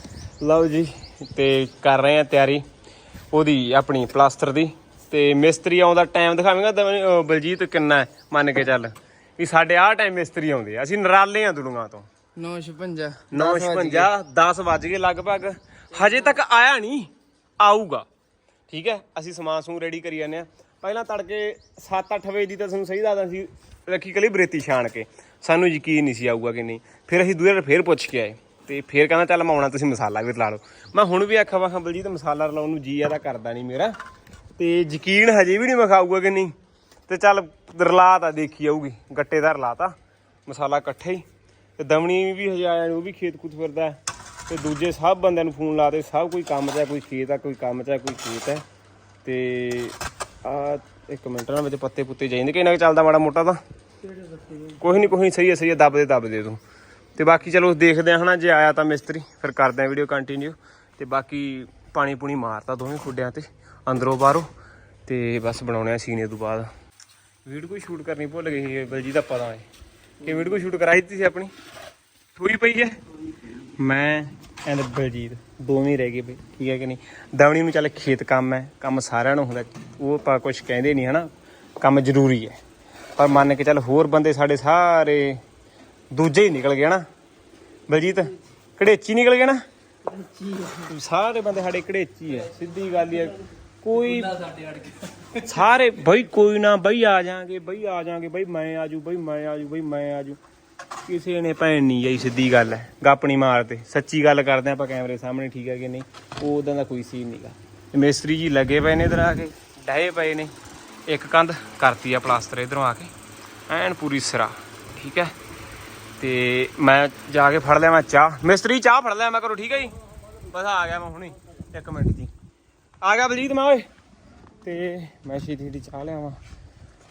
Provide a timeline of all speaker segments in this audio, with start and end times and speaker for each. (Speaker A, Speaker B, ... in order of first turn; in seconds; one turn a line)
Speaker A: 0.4-2.6
Speaker A: 3.3-12.1
Speaker B: 12.3-14.1
Speaker A: 13.3-18.1
Speaker B: 15.9-16.4
Speaker A: 18.7-33.9
Speaker A: 34.6-36.5
Speaker A: 37.1-39.9
Speaker A: 40.5-41.2
Speaker A: 41.8-48.6
Speaker A: 49.2-53.6
Speaker B: 54.1-54.8
Speaker A: 54.7-56.6
Speaker A: 57.1-64.5
Speaker A: 65.0-66.7
Speaker A: 67.5-69.7
Speaker A: 70.2-71.5
Speaker A: 72.3-81.3
Speaker A: 81.8-82.6
Speaker A: 83.2-85.4
Speaker A: 86.1-87.0
Speaker A: 87.9-89.6
Speaker B: 90.0-90.9
Speaker A: 90.8-94.4
Speaker B: 94.0-95.5
Speaker A: 95.4-100.4
Speaker A: 101.0-110.5
Speaker A: 111.1-113.1
Speaker A: 113.7-115.3
Speaker A: 116.2-122.3
Speaker A: 123.0-123.9
Speaker A: 124.6-126.4